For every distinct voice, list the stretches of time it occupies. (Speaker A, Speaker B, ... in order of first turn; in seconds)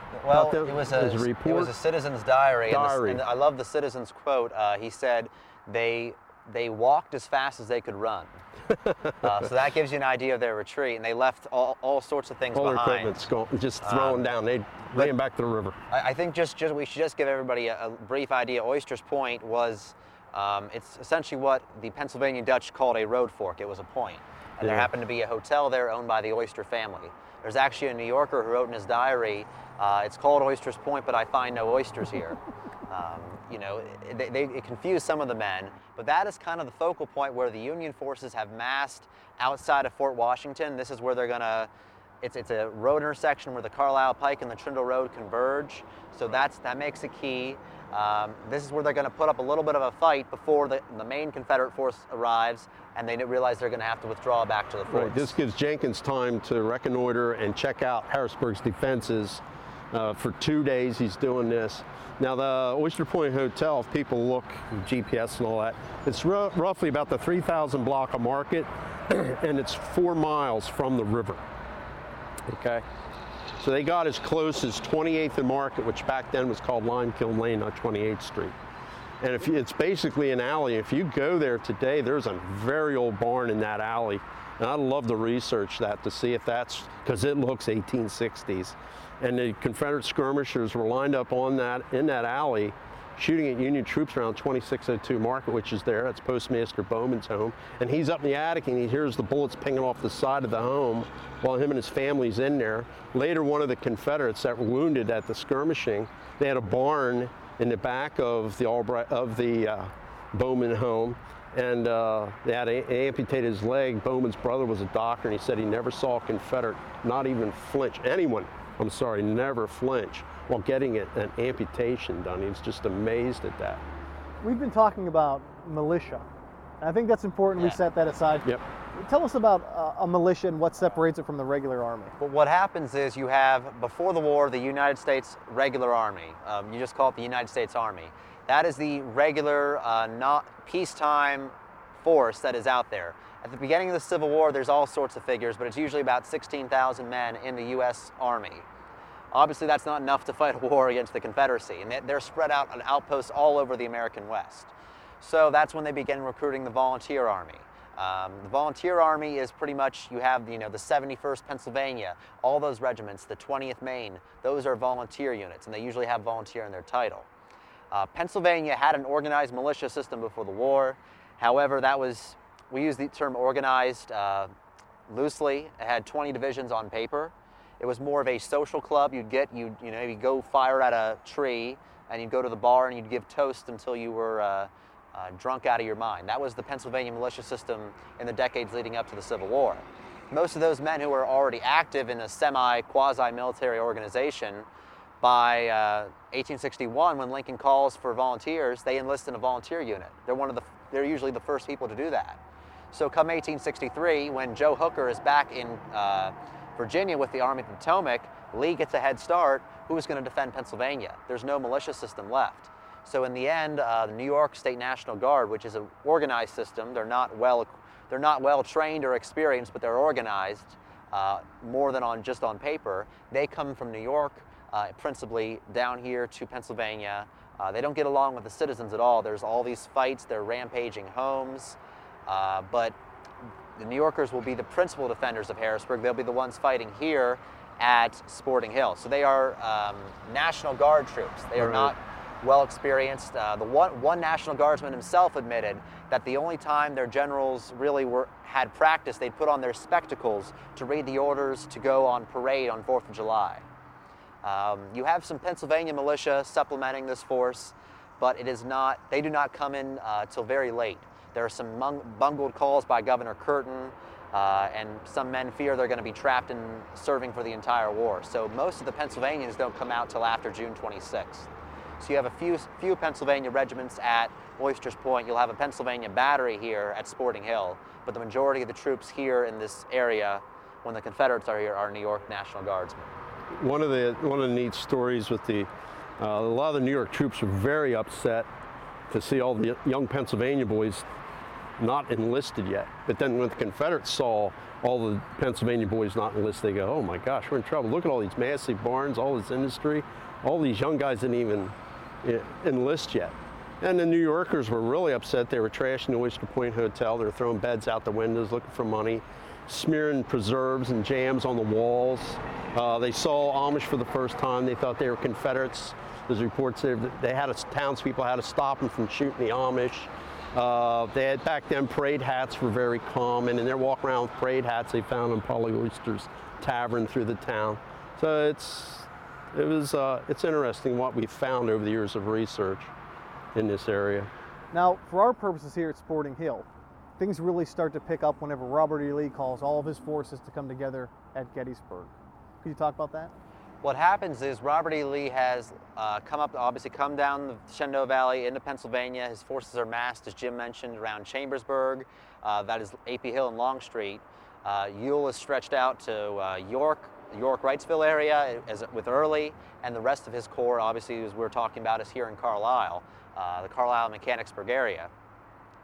Speaker A: 0.1-8.3, 9.2-13.2, 13.8-14.2, 15.9-32.4, 32.9-41.7, 42.2-55.3, 132.2-148.7, 149.3-167.3, 167.9-174.5, 175.1-194.7, 195.2-202.4, 202.9-232.9, 233.8-253.7, 254.4-271.5, 272.0-283.1, 343.8-365.1
Speaker B: 0.3-1.7, 2.7-3.2, 12.5-15.8, 24.6-24.9, 54.9-71.4, 72.5-72.8, 73.6-78.5, 79.2-123.8, 241.6-241.9, 283.5-285.7, 286.2-288.5, 289.1-291.0, 291.8-332.9, 333.5-334.3
Speaker C: 124.4-126.2, 126.8-132.1, 334.7-336.6, 337.2-343.3